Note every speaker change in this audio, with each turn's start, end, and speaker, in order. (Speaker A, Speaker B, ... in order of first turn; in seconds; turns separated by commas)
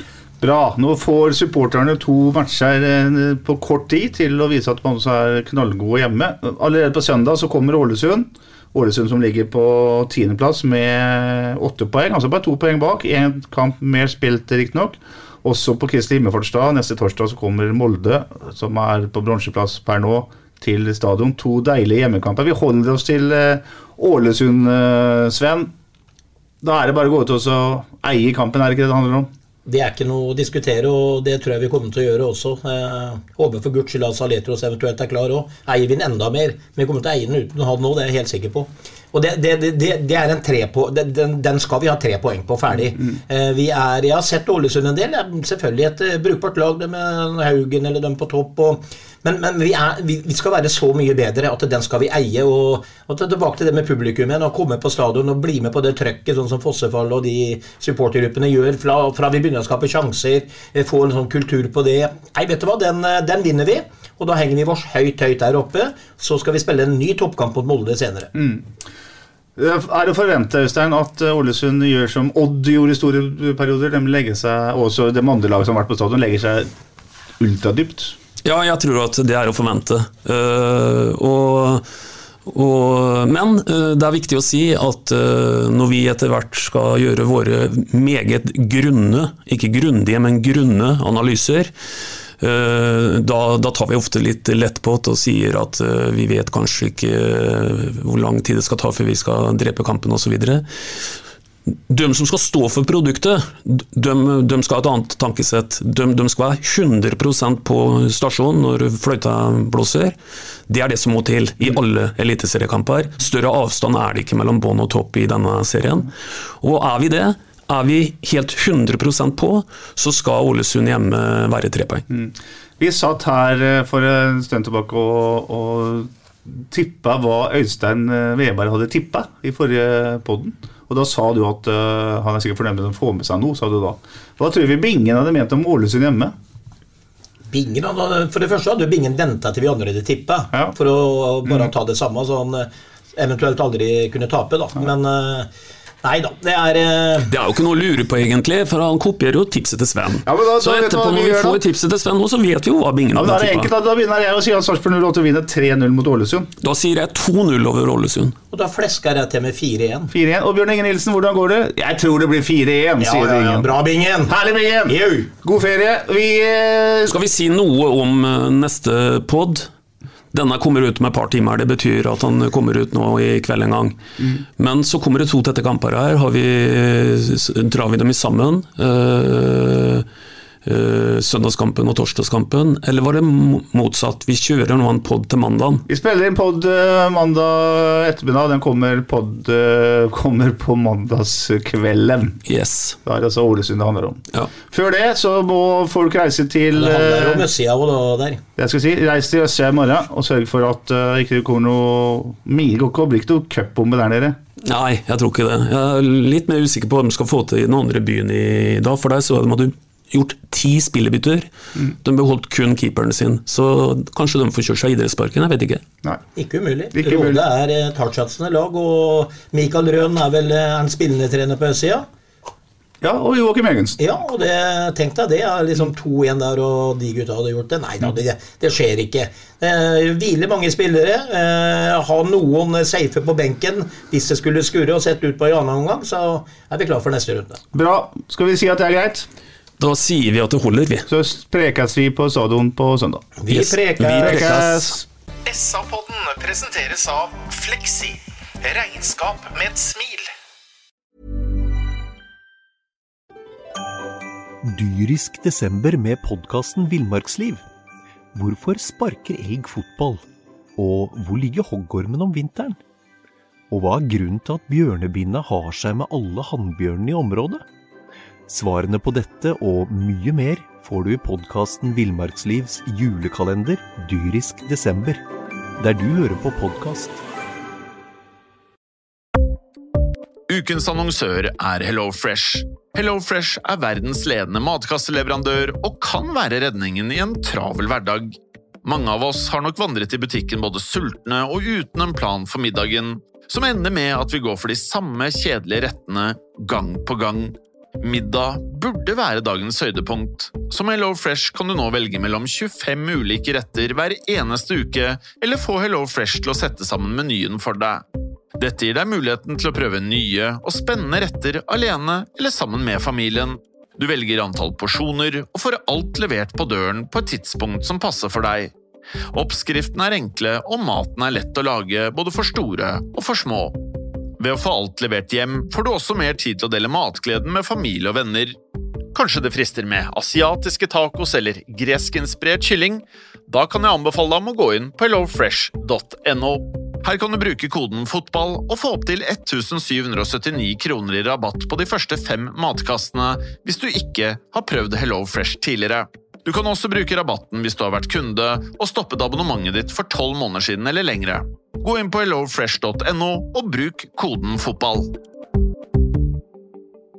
Speaker A: 0.4-25.7, Speaker A: 26.6-29.3, Speaker B: 29.7-68.3, Speaker A: 68.3-68.6, Speaker A: 69.5-76.7, Speaker A: 77.4-78.2, Speaker C: 78.4-81.8, Speaker C: 82.5-91.7, Speaker C: 92.4-100.6, Speaker C: 101.9-110.2, Speaker C: 110.7-122.0, Speaker A: 122.1-136.3, Speaker B: 137.5-145.5, Speaker B: 146.0-147.3, Speaker C: 147.3-153.7, Speaker A: 150.2-151.6, Speaker A: 153.1-156.5, Speaker C: 156.6-158.4, Speaker B: 158.5-160.1, Speaker A: 160.1-163.7, Speaker B: 163.0-164.3, Speaker A: 164.3-167.2, Speaker B: 164.9-165.3, Speaker C: 167.1-169.7, Speaker C: 170.3-174.0, Speaker C: 174.6-180.1, Speaker C: 180.6-185.8, Speaker A: 185.9-192.4, Speaker C: 192.5-193.0, Speaker A: 193.0-197.5, Speaker B: 196.8-198.4, Speaker A: 198.6-204.4, Speaker C: 204.6-211.5, Speaker C: 212.0-215.8, Speaker B: 216.4-222.1, Speaker A: 216.9-217.4, Speaker A: 223.0-224.0, Speaker B: 224.0-237.6, Speaker A: 237.7-239.3, Speaker C: 239.8-241.1, Speaker A: 241.1-243.3, Speaker B: 243.4-244.5, Speaker C: 243.5-244.9, Speaker A: 244.0-245.0, Speaker D: 245.5-250.3, Speaker E: 254.6-257.6, Speaker E: 258.3-260.2, Speaker E: 260.8-262.8, Speaker E: 263.7-267.6, Speaker E: 268.5-275.2, Speaker E: 275.8-277.2, Speaker F: 280.5-308.0, Speaker F: 308.6-318.7, Speaker F: 319.3-323.8, Speaker F: 324.4-328.6, Speaker F: 329.1-355.1